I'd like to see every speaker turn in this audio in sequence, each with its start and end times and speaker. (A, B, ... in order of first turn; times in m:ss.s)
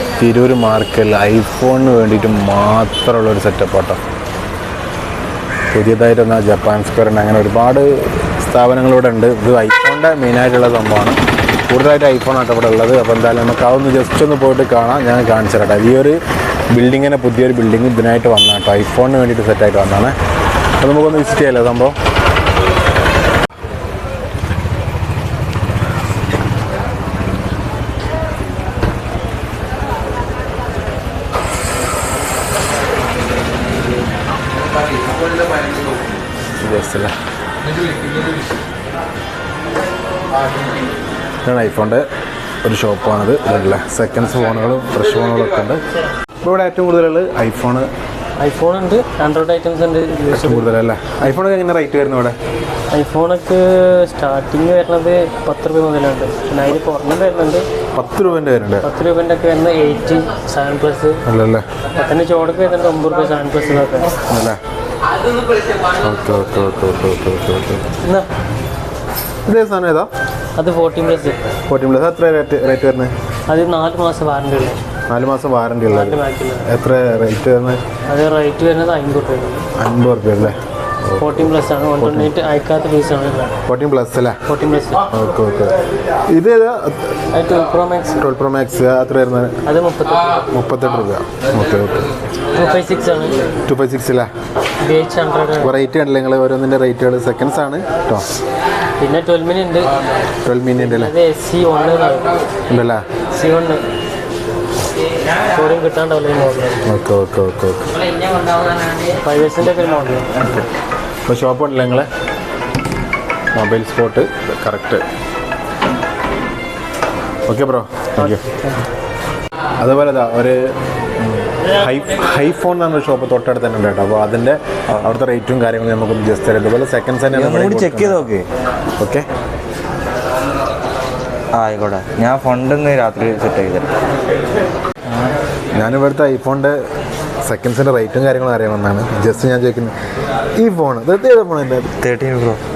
0:00.2-0:04.0 A
0:05.7-0:16.2 A
0:16.7-0:20.1 A
0:20.8-0:21.9 A
0:36.6-0:37.1 A
0:41.4-0:42.0 A
0:42.6-0:45.8 A
0:46.4-0:47.9 A
0:48.4-0:50.7 B
0:50.3-0:52.3 A
0:52.9-0:57.7 B
0:57.9-0:58.9 A
0:58.8-1:01.2 B
1:01.2-1:01.6 A
1:02.0-1:04.2 B
1:04.3-1:04.6 A
1:06.0-1:07.9 A
1:08.0-1:08.3 B
1:09.4-1:10.1 A
1:10.6-1:11.4 B
1:11.7-1:13.1 A
1:13.5-1:14.8 B
1:15.1-1:17.8 A
1:15.9-1:16.7 B
1:18.1-1:19.6 B
1:19.8-1:22.3 A
1:21.2-1:23.6 B
1:23.7-1:24.4 A
1:24.4-1:25.0 B
1:25.1-1:27.2 A
1:27.3-1:28.2 B
1:28.2-1:29.6 A
1:29.6-1:30.5 B
1:30.5-1:32.1 A
1:32.5-1:33.4 B
1:33.7-1:34.3 A
1:34.8-1:35.7 B
1:35.6-1:38.3 A
1:39.0-1:39.9 B
1:40.4-1:41.1 A
1:40.8-1:42.4 B
1:42.7-1:43.0 A
1:43.3-1:43.8 B
1:45.5-1:46.8 B
1:46.8-1:47.9 A
1:49.1-1:50.3 B
1:50.3-1:50.7 C
1:51.2-1:52.1 A
1:53.5-1:55.0 A
1:57.5-1:58.4 A
1:58.2-1:58.8 B
1:59.8-2:00.6 A
2:01.6-2:08.3 A
2:07.3-2:08.4 C
2:09.0-2:09.2 A
2:11.6-2:13.9 C
2:15.0-2:15.4 C
2:15.7-2:16.8 A
2:17.4-2:19.9 A
2:20.6-2:21.9 A
2:22.0-2:22.6 C